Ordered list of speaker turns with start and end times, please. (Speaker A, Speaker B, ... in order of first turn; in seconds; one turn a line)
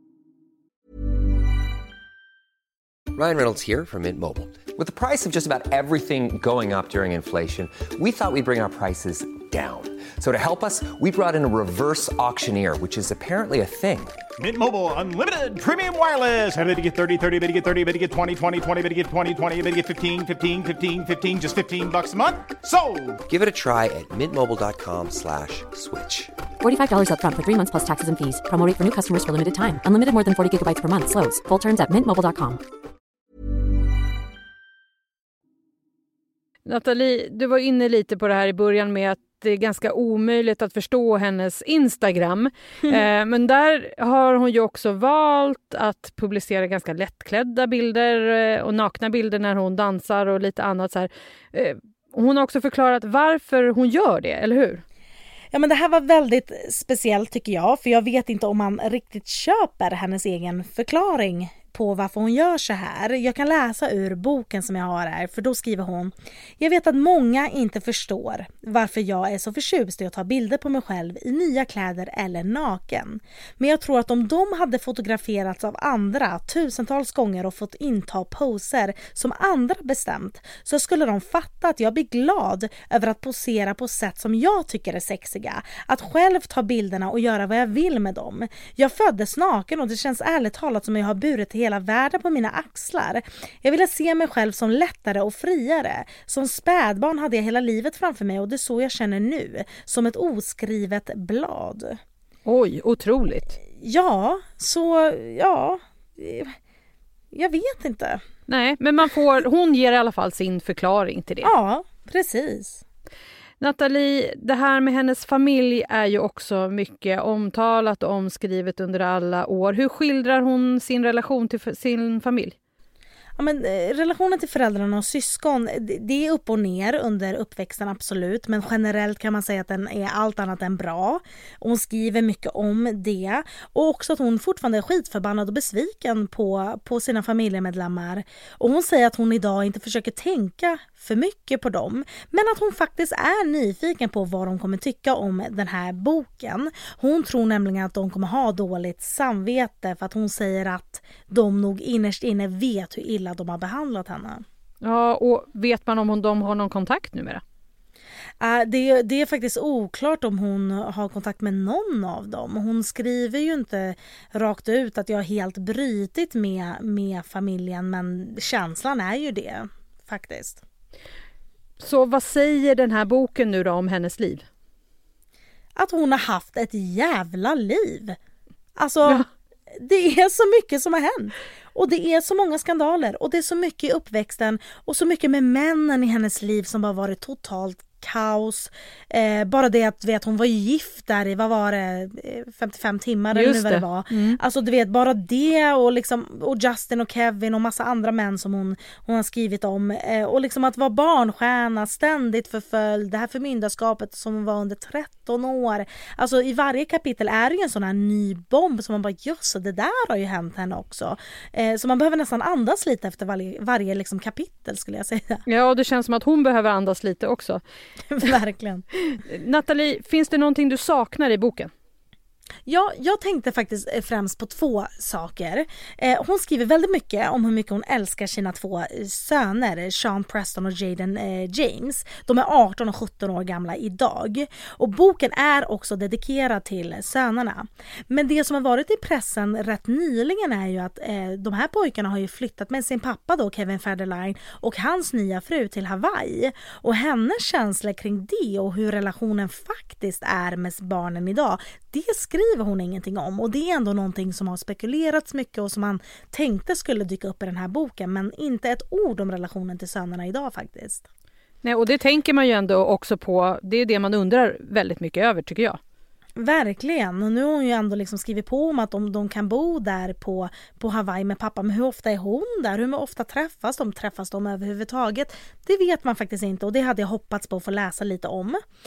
Speaker A: 3.1-14.2
Speaker B: 14.4-23.2
Speaker A: 23.3-26.3
Speaker C: 26.6-32.6
Speaker D: 36.6-54.8
Speaker E: 55.5-102.0
Speaker D: 102.5-103.6
Speaker E: 103.8-106.6
Speaker E: 107.3-108.2
Speaker D: 108.5-111.5
Speaker E: 111.4-112.8
Speaker D: 113.6-122.6
Speaker E: 123.4-154.4
Speaker D: 154.8-157.4
Speaker E: 158.4-170.6
Speaker D: 171.8-174.5
Speaker E: 175.8-178.2
Speaker E: 178.8-179.2
Speaker E: 179.8-215.4
Speaker D: 193.3-194.4
Speaker D: 215.5-217.6
Speaker E: 218.1-218.8
Speaker D: 219.0-221.7
Speaker E: 222.7-261.1
Speaker D: 261.6-265.8
Speaker E: 266.4-278.6